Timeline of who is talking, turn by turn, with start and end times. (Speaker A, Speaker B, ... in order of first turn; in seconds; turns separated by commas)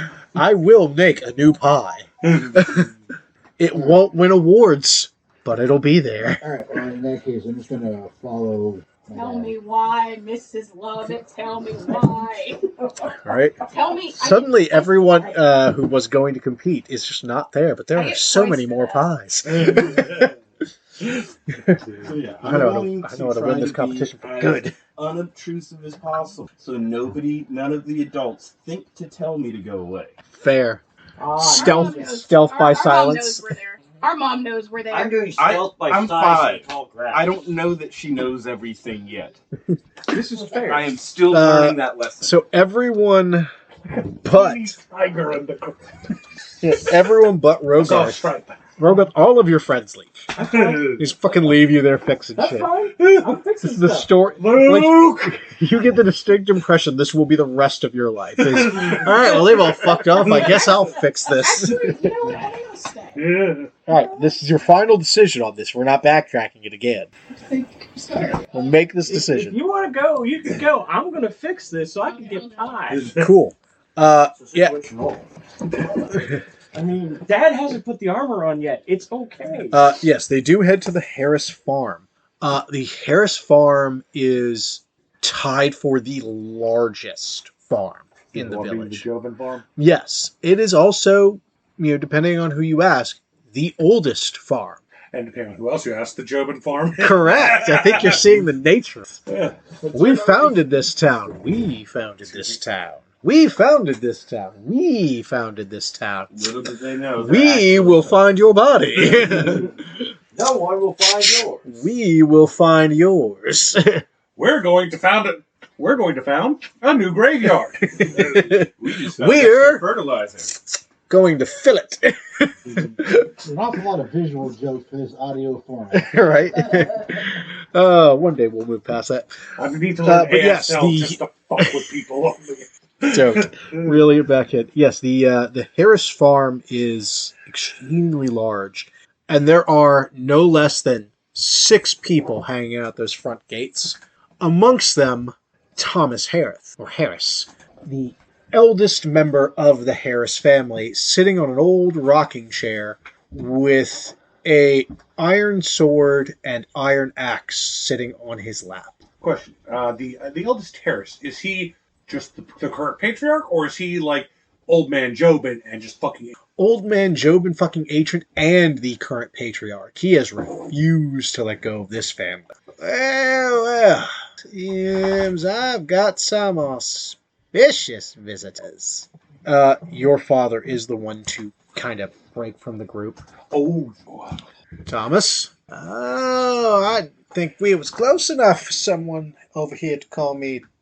Speaker A: 0.3-2.9, Speaker A: 3.6-6.4, Speaker B: 6.4-9.6, Speaker C: 9.1-12.6, Speaker A: 13.1-13.6, Speaker C: 13.7-15.4, Speaker A: 14.1-20.3, Speaker C: 17.9-19.1, Speaker A: 21.5-21.8, Speaker D: 22.0-30.1, Speaker A: 22.4-24.7, Speaker A: 30.3-30.8, Speaker E: 31.2-31.7, Speaker A: 31.4-33.5, Speaker C: 31.4-35.2, Speaker E: 34.9-37.4, Speaker D: 35.3-39.4, Speaker E: 40.1-40.9, Speaker D: 40.6-42.4, Speaker A: 41.2-43.5, Speaker F: 44.1-45.9, Speaker A: 44.2-44.8, Speaker A: 46.6-48.2, Speaker F: 47.8-48.6, Speaker A: 48.8-52.7, Speaker F: 50.4-50.8, Speaker E: 50.4-50.9, Speaker E: 52.4-54.1, Speaker F: 53.0-53.4, Speaker A: 53.6-62.3, Speaker F: 54.4-55.3, Speaker F: 58.7-59.2, Speaker C: 60.3-60.6, Speaker C: 61.3-63.2, Speaker F: 63.1-63.7, Speaker A: 63.9-67.1, Speaker C: 63.9-64.6, Speaker C: 67.4-68.6, Speaker A: 68.5-69.6, Speaker E: 69.0-73.1, Speaker C: 72.1-72.8, Speaker F: 72.9-73.3, Speaker A: 73.2-74.8, Speaker E: 76.8-79.8, Speaker A: 79.7-89.0, Speaker F: 88.3-89.6, Speaker A: 89.8-94.8, Speaker F: 95.1-98.5, Speaker A: 97.0-99.2, Speaker F: 99.3-99.5, Speaker A: 99.9-106.5, Speaker D: 102.3-102.6, Speaker D: 106.3-108.2, Speaker A: 107.2-109.7, Speaker D: 109.0-109.6, Speaker D: 110.3-111.6, Speaker A: 111.2-114.0, Speaker F: 114.3-118.5, Speaker A: 117.8-119.9, Speaker D: 118.2-120.5, Speaker A: 120.4-123.3, Speaker B: 122.7-126.8, Speaker A: 125.9-129.5, Speaker F: 129.6-133.8, Speaker A: 130.0-131.8, Speaker A: 133.1-158.9, Speaker F: 159.2-166.3, Speaker A: 166.6-183.2, Speaker F: 183.5-184.4, Speaker A: 184.9-190.6